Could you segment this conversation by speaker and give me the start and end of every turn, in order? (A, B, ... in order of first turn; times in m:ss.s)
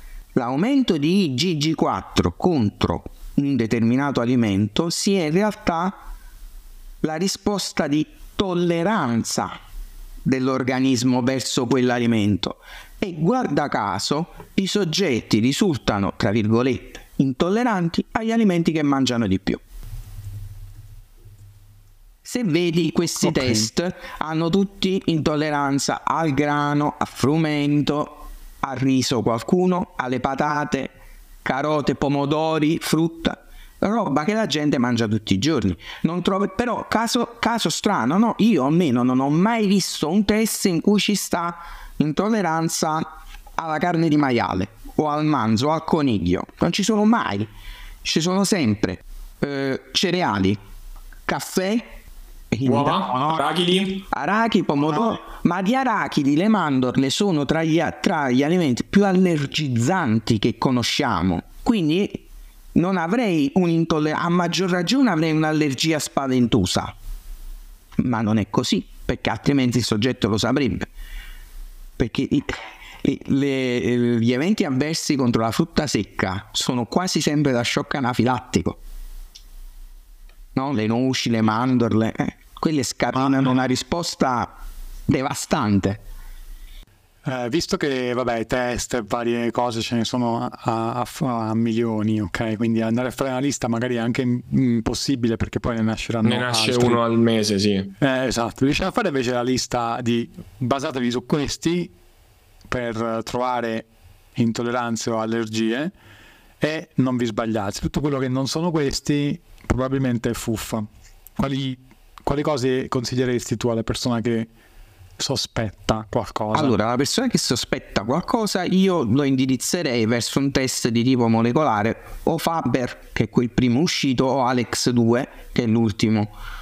0:00.4-0:06.0 A
0:07.0-0:09.6 A
0:10.2-0:19.6 A
0:22.2-0:47.5 A
0:48.0-0:50.6 A
0:51.3-0:51.9 A
0:52.5-0:53.4 A
0:52.6-0:54.1 B
0:54.0-1:07.0 A
1:08.0-1:10.9 A
1:12.0-1:18.8 A
1:20.6-1:24.6 A
1:25.1-1:26.0 A
1:27.2-1:37.0 C
1:36.2-1:37.9 B
1:38.0-1:41.9 C
1:42.7-1:45.9 C
1:46.6-1:54.5 C
1:55.2-1:56.7 C
1:56.5-2:06.3 A